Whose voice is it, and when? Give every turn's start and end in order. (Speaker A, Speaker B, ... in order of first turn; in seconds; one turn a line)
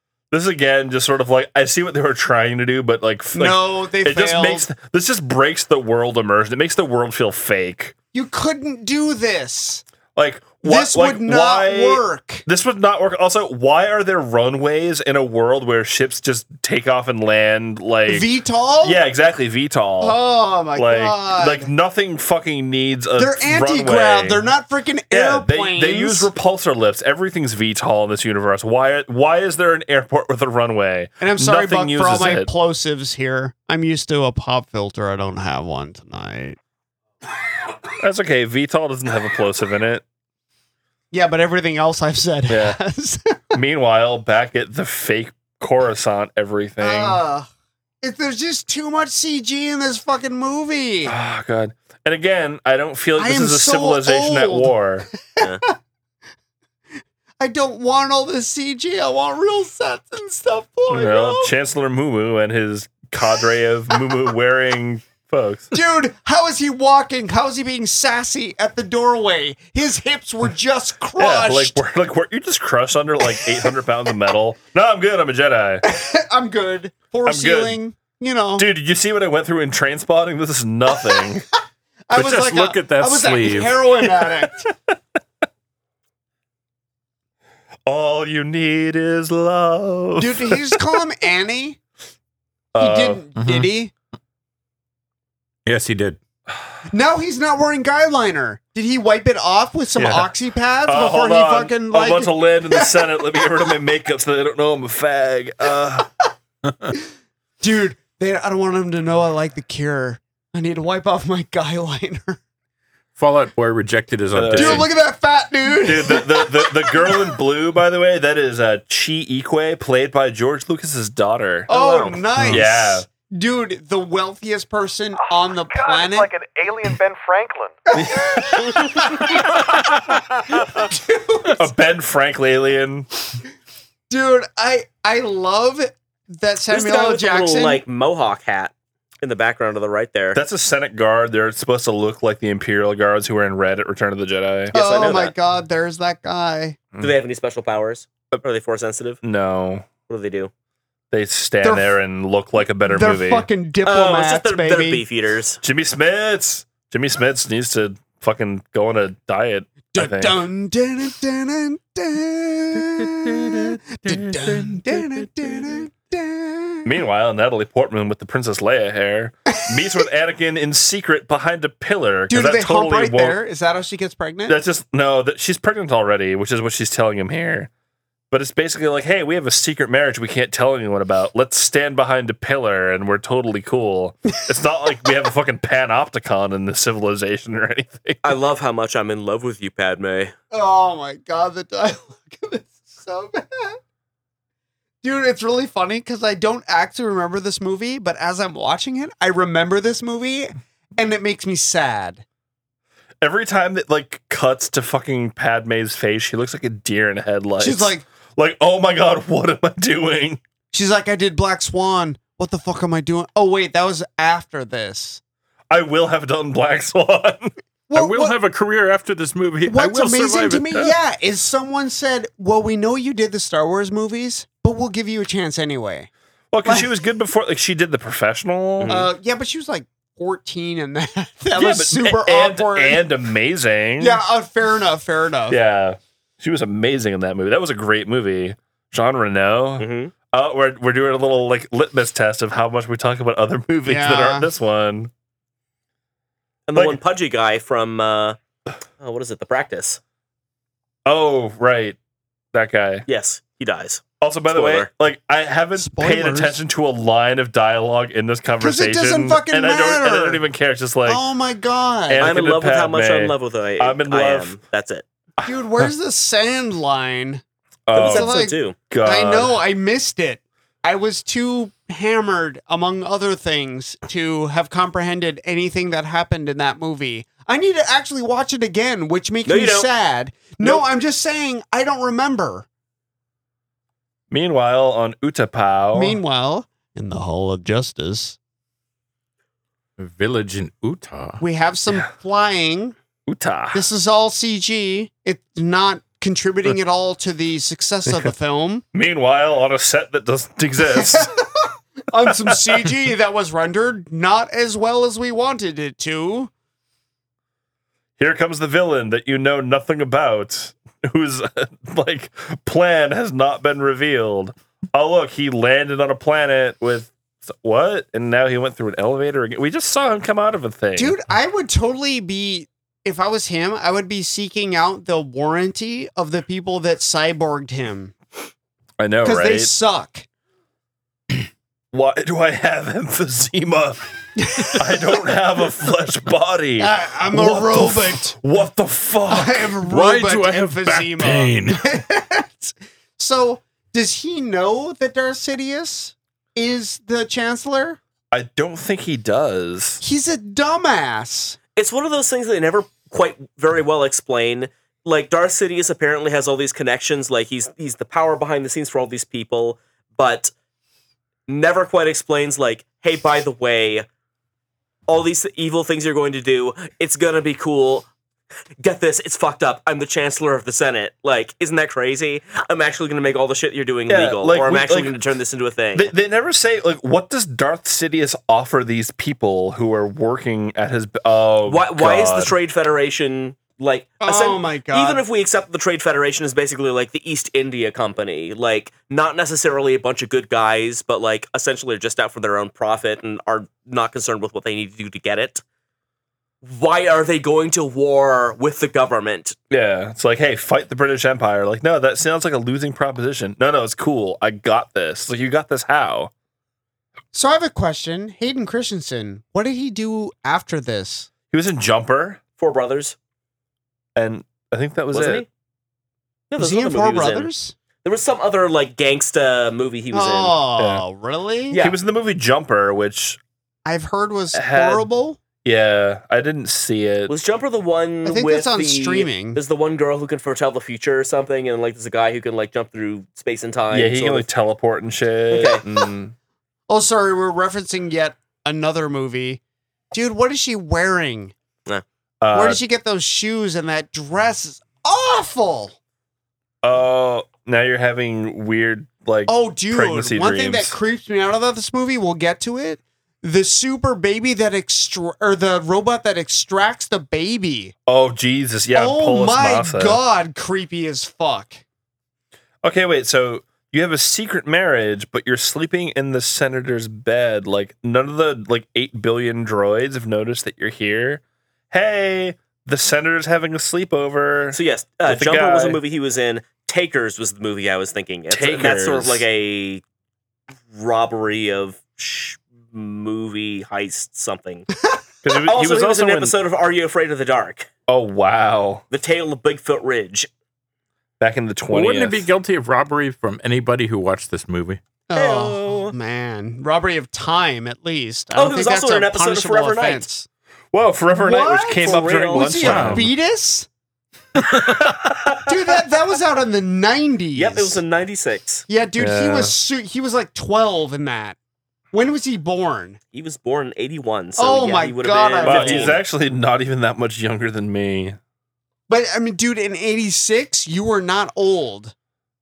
Speaker A: 0.3-7.9
Speaker B: 3.4-4.7
Speaker B: 8.1-9.8
Speaker A: 10.2-18.3
Speaker B: 10.6-12.4
Speaker B: 18.1-19.0
Speaker A: 18.8-20.2
Speaker B: 20.0-21.7
Speaker A: 20.8-24.4
Speaker B: 23.2-26.3
Speaker A: 25.1-32.5
Speaker B: 31.2-36.6
Speaker A: 38.0-40.0
Speaker B: 41.1-43.6
Speaker A: 42.5-42.8
Speaker A: 43.5-47.2
Speaker B: 46.8-47.5
Speaker B: 48.0-51.1
Speaker A: 51.0-55.1
Speaker B: 53.2-54.8
Speaker B: 55.3-55.8
Speaker B: 57.4-61.5
Speaker A: 60.9-65.8
Speaker B: 65.7-71.8
Speaker A: 71.2-75.9
Speaker B: 75.8-78.7
Speaker A: 77.2-77.8
Speaker A: 78.6-81.5
Speaker B: 82.1-84.7
Speaker C: 82.1-83.8
Speaker A: 87.9-90.8
Speaker B: 90.2-91.8
Speaker A: 92.7-93.2
Speaker B: 92.8-93.9
Speaker C: 93.4-93.7
Speaker C: 95.7-96.2
Speaker B: 96.9-103.7
Speaker A: 100.0-100.3
Speaker A: 100.9-106.1
Speaker B: 107.6-112.4
Speaker C: 113.2-114.9
Speaker A: 114.3-114.9
Speaker B: 114.5-117.4
Speaker A: 115.8-123.1
Speaker B: 121.7-126.3
Speaker D: 121.7-122.2
Speaker C: 122.4-122.6
Speaker E: 125.3-127.9
Speaker A: 127.9-130.0
Speaker B: 128.0-131.7
Speaker A: 131.5-133.1
Speaker B: 134.1-137.8
Speaker D: 136.7-140.4
Speaker A: 140.3-144.8
Speaker D: 144.7-145.3
Speaker B: 144.7-146.8
Speaker D: 147.0-149.2
Speaker A: 149.2-149.9
Speaker D: 150.1-150.5
Speaker A: 151.1-153.5
Speaker B: 151.6-151.9
Speaker B: 152.9-155.0
Speaker D: 153.8-155.6
Speaker A: 155.6-160.4
Speaker B: 159.9-166.9
Speaker A: 166.8-173.4
Speaker B: 172.3-174.6
Speaker A: 174.5-177.7
Speaker A: 178.3-188.3
Speaker D: 188.2-190.3
Speaker B: 190.5-193.8
Speaker B: 195.0-202.2
Speaker A: 203.2-210.4
Speaker B: 207.6-208.0
Speaker B: 210.7-215.2
Speaker A: 215.7-217.5
Speaker B: 217.9-218.4
Speaker C: 217.9-220.7
Speaker B: 219.7-226.1
Speaker A: 226.5-229.0
Speaker D: 228.8-229.1
Speaker B: 228.9-233.1
Speaker A: 231.5-234.2
Speaker B: 234.0-235.6
Speaker A: 235.5-245.1
Speaker D: 239.8-240.1
Speaker B: 243.8-244.5
Speaker D: 246.7-248.4
Speaker A: 246.8-247.0
Speaker D: 249.0-250.0
Speaker A: 251.1-252.0
Speaker A: 252.5-253.1
Speaker D: 253.1-254.9
Speaker A: 254.2-261.2
Speaker B: 255.8-256.6
Speaker B: 258.6-260.4
Speaker B: 261.1-262.3
Speaker A: 262.1-264.6
Speaker D: 262.2-265.1
Speaker A: 265.4-265.9
Speaker B: 265.4-267.4
Speaker A: 267.9-268.3
Speaker D: 267.9-268.8
Speaker B: 268.0-282.7
Speaker A: 268.9-269.6
Speaker D: 279.4-279.9
Speaker A: 284.3-286.2
Speaker B: 285.9-288.4
Speaker C: 290.0-291.4
Speaker B: 291.4-293.0
Speaker A: 293.3-293.9
Speaker B: 293.7-298.9
Speaker A: 298.9-301.3
Speaker B: 300.9-306.5
Speaker A: 302.3-302.6
Speaker A: 308.2-321.2
Speaker B: 321.0-328.1
Speaker A: 329.0-329.7
Speaker B: 329.2-330.3
Speaker A: 331.9-334.0
Speaker B: 334.4-334.8
Speaker A: 334.6-339.8
Speaker B: 336.8-338.4
Speaker B: 339.3-348.0
Speaker C: 339.9-341.9
Speaker A: 348.3-350.0
Speaker B: 350.0-351.6
Speaker D: 351.8-360.5
Speaker D: 361.5-364.1
Speaker D: 365.1-368.1
Speaker D: 368.8-376.1
Speaker A: 374.1-375.1
Speaker A: 375.9-382.5
Speaker D: 381.7-395.6
Speaker B: 384.2-385.2
Speaker D: 396.6-399.6
Speaker A: 399.7-406.3
Speaker B: 407.3-411.3
Speaker A: 411.5-412.4
Speaker D: 412.6-413.2
Speaker A: 414.2-415.4
Speaker D: 415.1-415.5
Speaker D: 416.5-417.5
Speaker B: 416.6-417.8
Speaker D: 418.0-420.6
Speaker B: 420.1-421.8
Speaker A: 420.8-421.0
Speaker D: 421.7-422.0
Speaker A: 421.8-423.4
Speaker B: 423.9-425.4
Speaker A: 424.5-425.1
Speaker A: 425.6-427.3
Speaker D: 427.3-434.5
Speaker B: 428.2-429.6
Speaker A: 433.9-436.4
Speaker D: 435.5-435.8
Speaker B: 436.9-439.6
Speaker B: 440.1-441.5
Speaker A: 442.4-442.8
Speaker B: 442.5-446.0
Speaker A: 446.8-451.0
Speaker B: 449.5-457.9
Speaker A: 458.1-460.2
Speaker B: 458.9-461.8
Speaker A: 462.8-476.0
Speaker D: 474.7-480.0
Speaker A: 478.5-479.4
Speaker D: 480.9-484.9
Speaker A: 485.4-486.6
Speaker D: 485.7-487.9
Speaker A: 488.1-489.0
Speaker D: 489.1-490.5
Speaker A: 491.4-492.5
Speaker C: 491.9-495.0
Speaker B: 495.3-500.5
Speaker D: 495.4-496.1
Speaker D: 498.6-500.3
Speaker A: 500.9-503.3
Speaker B: 501.3-503.9
Speaker D: 502.0-503.0
Speaker C: 502.8-503.3
Speaker A: 504.8-505.6
Speaker B: 505.6-508.0
Speaker D: 507.6-508.9
Speaker B: 508.9-511.6
Speaker A: 509.2-509.7
Speaker B: 512.1-513.2
Speaker D: 513.3-516.2
Speaker B: 514.6-516.2
Speaker A: 515.6-518.4
Speaker B: 519.1-522.1